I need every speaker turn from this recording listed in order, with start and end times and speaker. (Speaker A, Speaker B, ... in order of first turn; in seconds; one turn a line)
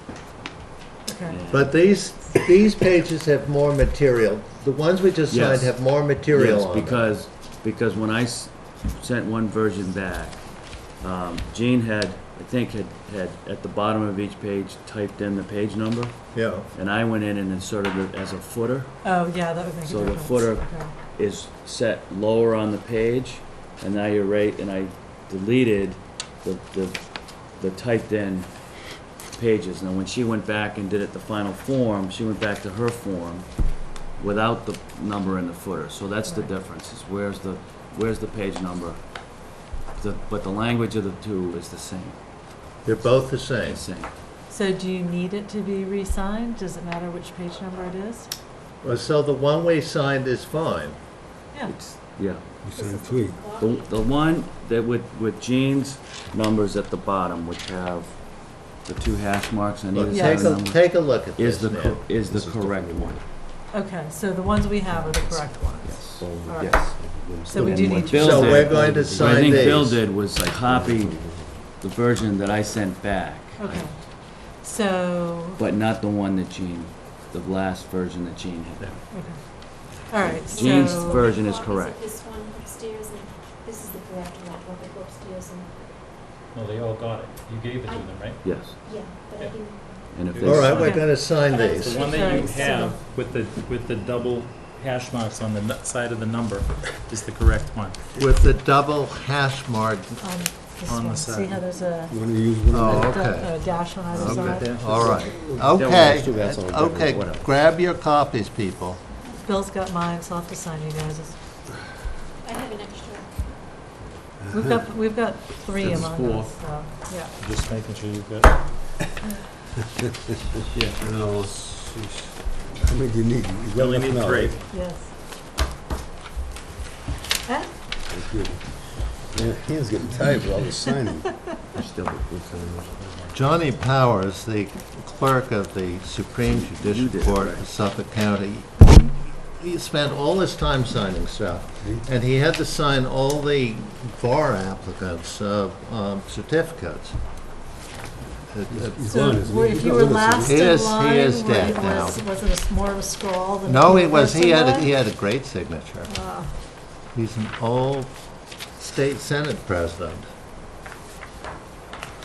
Speaker A: 1.0-1.4
Speaker B: 1.3-2.0
Speaker C: 1.5-7.1
Speaker B: 5.3-19.2
Speaker C: 16.3-16.7
Speaker A: 19.0-20.9
Speaker B: 19.8-42.2
Speaker C: 42.8-43.8
Speaker B: 43.6-44.1
Speaker A: 44.5-48.3
Speaker C: 48.8-51.0
Speaker B: 51.7-52.4
Speaker D: 52.6-53.4
Speaker E: 52.7-54.0
Speaker B: 53.5-63.2
Speaker C: 59.9-62.0
Speaker A: 60.1-60.6
Speaker D: 62.1-63.2
Speaker A: 63.7-66.8
Speaker B: 65.8-73.9
Speaker D: 65.8-69.9
Speaker A: 67.3-68.8
Speaker C: 68.1-70.0
Speaker D: 70.6-71.6
Speaker A: 73.6-75.6
Speaker B: 75.6-79.2
Speaker F: 78.8-79.2
Speaker A: 79.1-81.2
Speaker B: 80.2-82.1
Speaker E: 80.5-85.7
Speaker F: 86.5-88.5
Speaker E: 87.8-90.1
Speaker B: 88.4-89.3
Speaker B: 90.1-91.0
Speaker F: 90.3-91.0
Speaker C: 90.4-92.0
Speaker A: 90.7-91.1
Speaker E: 91.3-93.0
Speaker F: 91.8-98.0
Speaker A: 92.0-93.0
Speaker C: 98.2-100.2
Speaker A: 100.2-104.7
Speaker F: 100.8-101.6
Speaker D: 102.1-103.3
Speaker C: 102.7-109.0
Speaker F: 104.1-105.0
Speaker D: 104.2-105.8
Speaker B: 105.7-107.5
Speaker A: 109.4-111.4
Speaker E: 112.4-113.5
Speaker A: 114.5-117.3
Speaker B: 115.8-116.5
Speaker F: 117.4-118.6
Speaker F: 120.7-121.0
Speaker D: 121.0-124.6
Speaker F: 123.7-124.7
Speaker A: 124.7-125.1
Speaker A: 127.5-127.7
Speaker D: 128.1-128.7
Speaker D: 129.2-131.5
Speaker B: 131.7-132.9
Speaker F: 132.8-133.4
Speaker C: 133.3-147.2
Speaker B: 136.4-137.6
Speaker D: 141.8-142.1
Speaker C: 148.5-149.3
Speaker D: 148.7-150.7
Speaker A: 149.1-154.9
Speaker C: 150.4-152.2
Speaker C: 153.7-156.1
Speaker A: 156.1-156.5
Speaker C: 157.1-158.1
Speaker C: 158.8-160.3